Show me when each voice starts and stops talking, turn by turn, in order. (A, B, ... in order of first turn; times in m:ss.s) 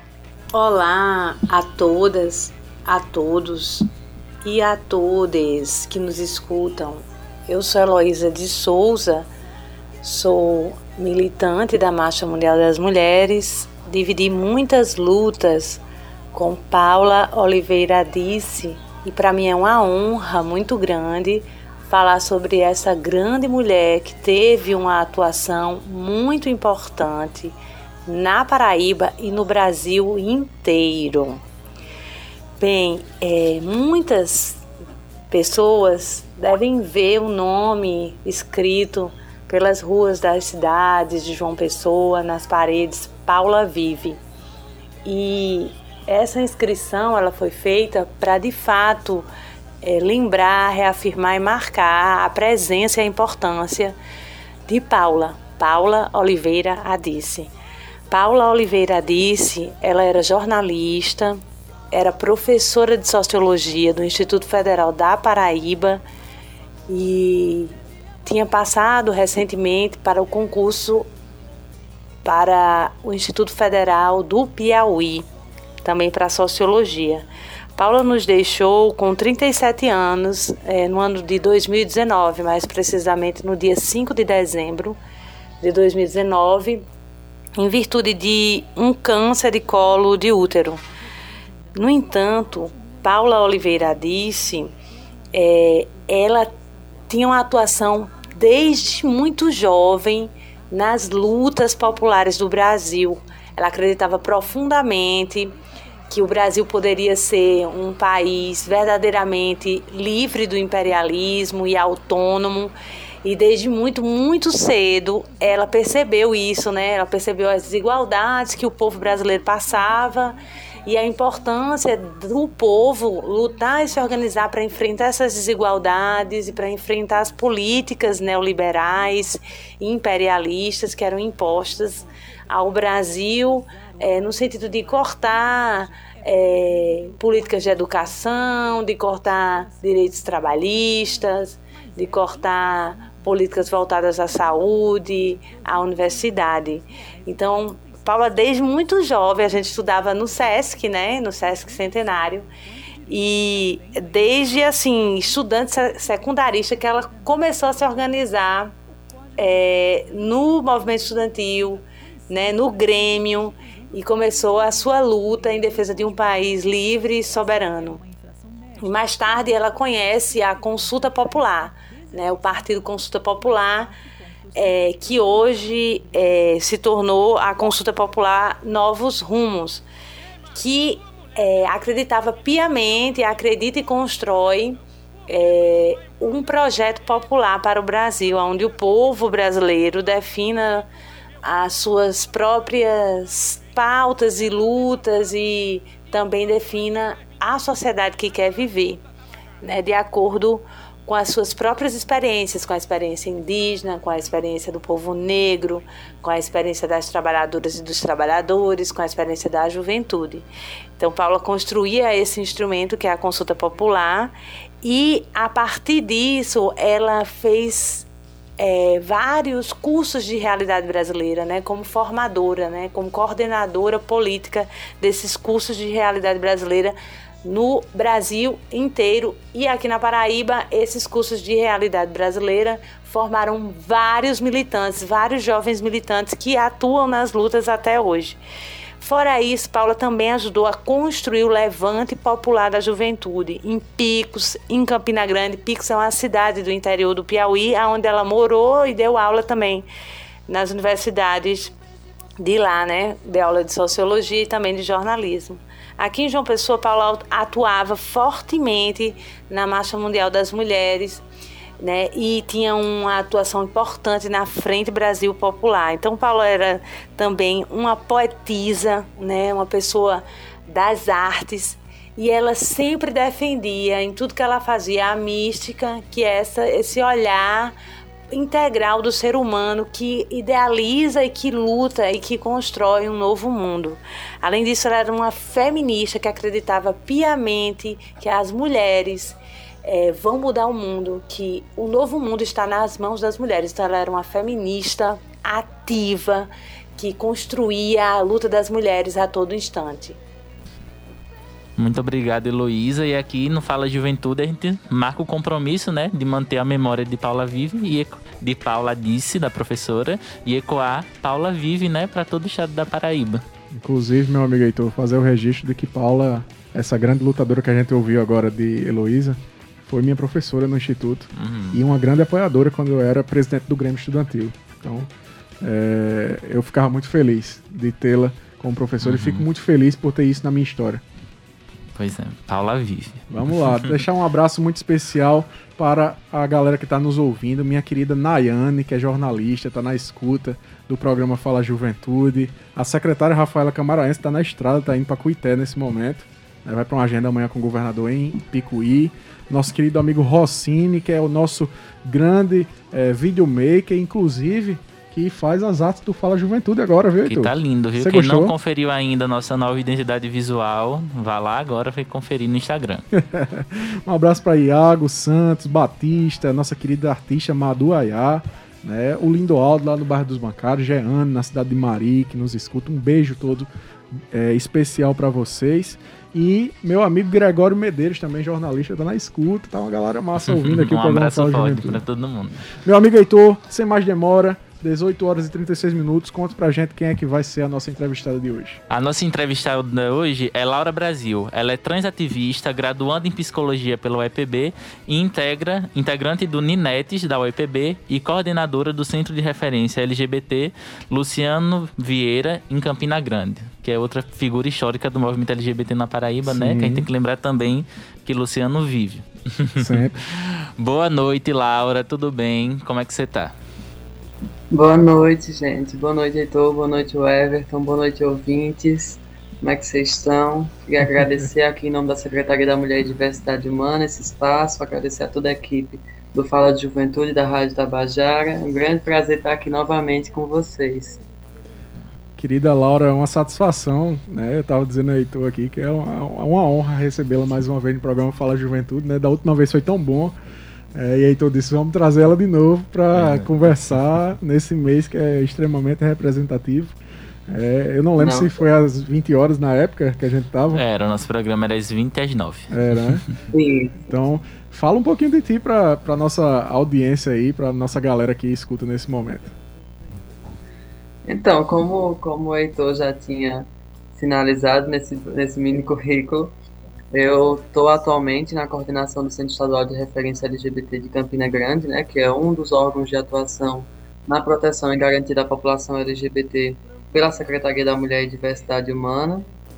0:00.5-0:03.9 A
0:04.4-0:09.3 A
0:10.0-0:15.8 A
0:16.3-0:31.4 A
0:32.6-0:34.6 A
0:35.3-0:44.2 A
0:45.0-0:49.3 A
0:49.8-0:54.0 A
0:54.7-0:57.5 A
0:58.1-1:01.4 A
1:01.9-1:06.0 A
1:06.9-1:11.1 A
1:12.2-1:15.3 A
1:15.8-1:25.0 A
1:25.6-1:26.9 A
1:27.6-1:30.8 A
1:31.7-1:34.7 A
1:35.3-1:36.5 A
1:37.1-1:45.6 A
1:46.1-1:52.7 A
1:53.2-2:32.5 A
2:33.1-2:38.7 A
2:39.4-2:48.0 A
2:48.8-2:53.9 A
2:54.5-2:59.8 A
3:00.5-3:10.9 A
3:11.4-3:19.0 A
3:19.6-3:30.5 A
3:31.0-3:38.1 A
3:38.6-3:58.4 A
3:59.0-4:09.9 A
4:10.5-4:11.7 A
4:12.4-4:21.2 A
4:21.8-4:37.7 A
4:38.3-5:00.2 A
5:01.8-5:13.4 B
5:13.7-5:25.1 C
5:21.3-5:21.8 B
5:25.6-5:31.0 C
5:29.0-5:29.4 B
5:32.0-5:34.0 B
5:33.3-5:58.6 C
5:57.3-6:03.0 B
6:03.1-6:22.0 C
6:20.4-6:22.7 B
6:22.8-6:28.8 C
6:28.9-6:53.6 B
6:46.5-6:47.1 C
6:49.8-6:50.2 C
6:54.7-7:11.2 D
7:12.4-7:20.4 C
7:20.9-7:27.0 C
7:23.1-7:23.5 B
7:27.5-7:30.8 C
7:28.2-7:28.6 D
7:30.7-7:33.2 B
7:32.7-7:33.3 C
7:33.5-7:34.0 D
7:34.0-7:39.5 C
7:41.2-7:46.6 D
7:47.1-7:59.5 D